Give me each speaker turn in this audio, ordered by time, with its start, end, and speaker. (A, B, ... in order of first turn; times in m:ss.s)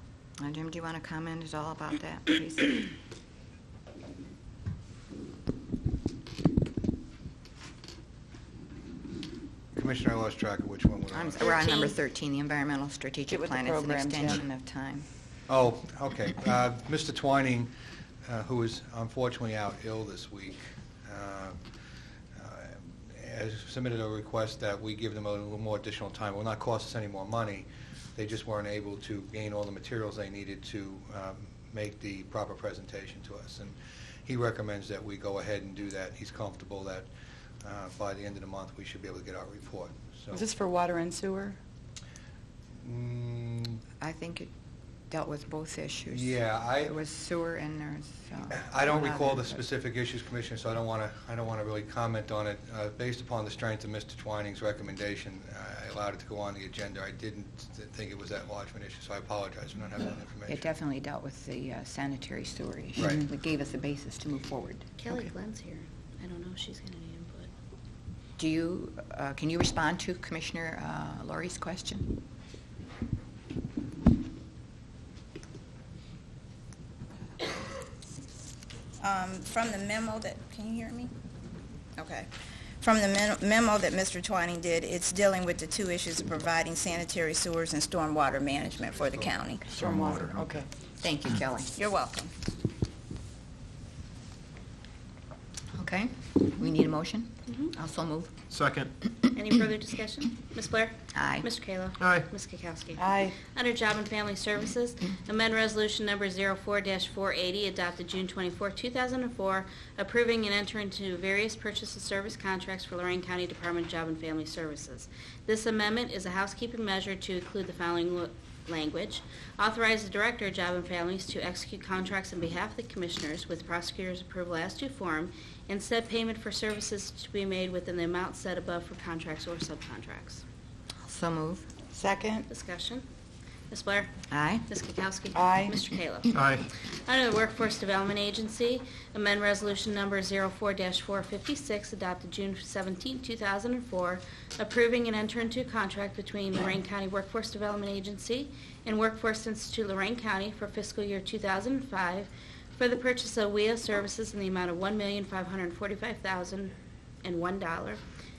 0:00.4-0:02.8 A
0:09.7-0:11.5 B
0:11.1-0:15.0 A
0:11.4-0:11.9 C
0:13.3-0:14.4 D
0:15.5-0:17.7 B
0:18.3-0:21.6 B
0:22.3-0:37.1 B
0:37.6-0:40.4 B
0:40.3-0:41.6 D
0:42.8-0:43.8 B
0:44.0-0:44.5 A
0:45.1-0:49.6 A
0:46.1-0:47.0 B
0:48.5-1:00.7 B
1:00.5-1:05.2 A
1:03.0-1:03.2 B
1:05.0-1:07.5 C
1:08.4-1:12.2 A
1:19.0-1:21.1 E
1:22.0-1:29.7 E
1:29.7-1:30.5 F
1:29.8-1:30.7 D
1:31.0-1:31.7 A
1:31.8-1:32.3 E
1:35.7-1:38.3 A
1:38.5-1:38.9 F
1:39.3-2:10.4 C
1:41.1-1:41.5 A
1:42.0-1:42.3 F
1:43.0-1:43.4 D
2:11.0-2:11.7 A
2:11.9-2:12.5 D
2:12.5-2:13.0 C
2:13.7-2:14.1 C
2:14.3-2:14.7 A
2:14.7-2:38.0 C
2:15.3-2:15.8 D
2:16.3-2:16.7 F